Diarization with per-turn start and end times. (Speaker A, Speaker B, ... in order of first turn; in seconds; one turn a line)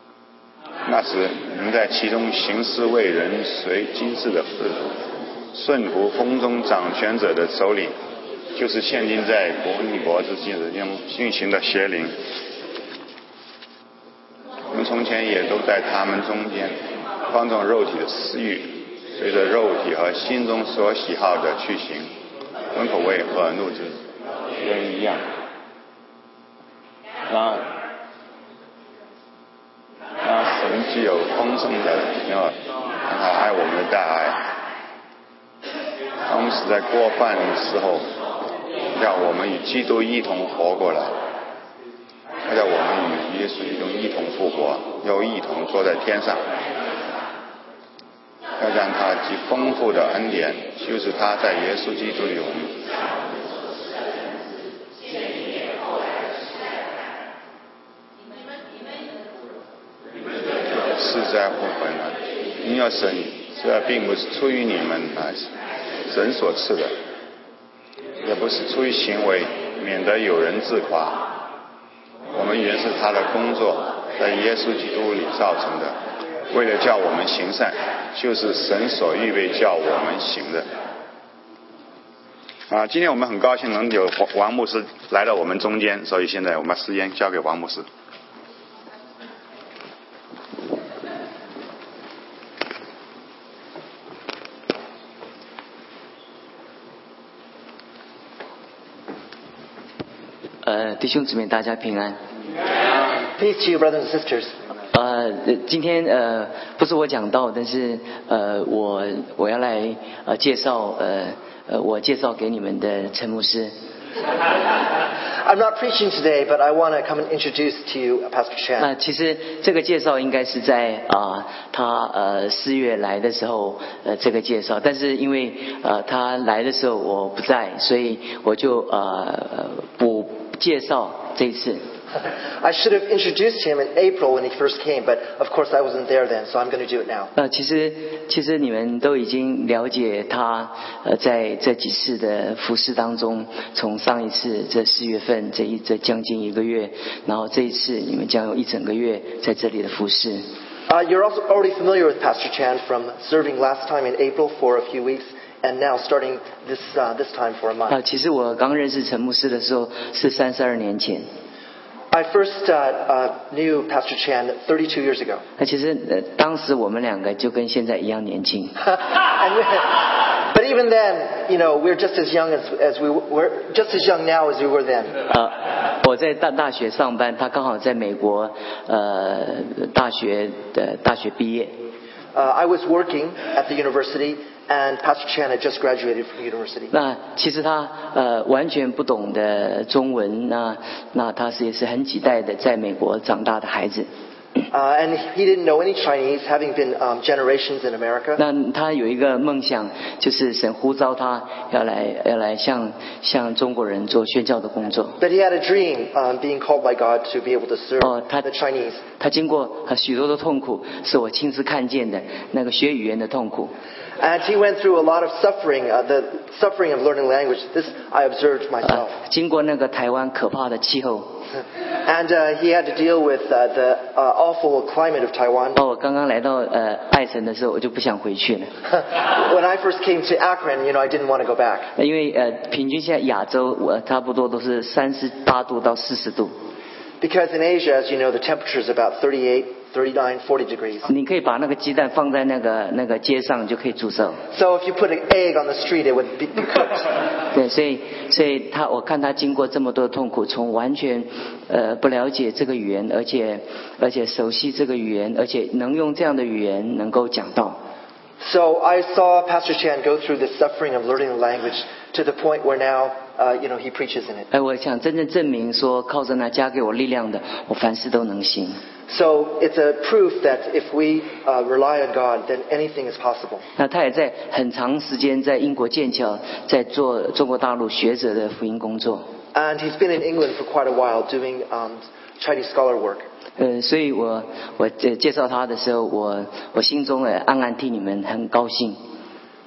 Speaker A: 0.8-4.9
Speaker A: 5.5-7.9
Speaker A: 8.5-12.2
Speaker A: 14.7-22.1
Speaker A: 22.7-24.0
Speaker A: 24.6-25.2
Speaker A: 27.3-27.7
Speaker A: 30.2-34.4
Speaker A: 36.3-38.0
Speaker A: 39.0-41.1
Speaker A: 42.5-46.4
Speaker A: 48.6-52.8
Speaker A: 60.9-65.5
Speaker A: 66.1-66.9
Speaker A: 68.2-71.3
Speaker A: 72.3-75.9
Speaker A: 76.5-80.7
Speaker A: 82.7-87.8
Speaker B: 100.6-102.2
Speaker C: 103.3-104.5
Speaker B: 104.9-113.7
Speaker C: 115.2-118.9
Speaker B: 118.8-131.8
Speaker C: 132.6-137.3
Speaker B: 137.3-150.4
Speaker C: 150.9-158.0
Speaker B: 157.9-161.3
Speaker C: 162.1-165.4
Speaker B: 165.6-168.8
Speaker C: 168.9-175.2
Speaker B: 175.3-181.7
Speaker C: 182.3-186.9
Speaker B: 186.9-194.1
Speaker C: 194.7-198.4
Speaker B: 198.4-205.2
Speaker C: 205.2-209.0
Speaker B: 208.0-208.4
Speaker B: 209.2-213.7
Speaker C: 214.2-219.2
Speaker B: 219.2-221.3
Speaker C: 222.0-225.8
Speaker B: 225.8-228.7
Speaker C: 229.2-231.9
Speaker B: 232.0-236.5
Speaker C: 237.2-241.1
Speaker B: 241.1-244.4
Speaker C: 244.5-247.2
Speaker B: 247.5-257.8
Speaker C: 258.4-264.5
Speaker B: 264.5-268.8
Speaker C: 269.1-273.6
Speaker B: 273.8-279.2
Speaker C: 279.5-283.2
Speaker B: 283.6-289.0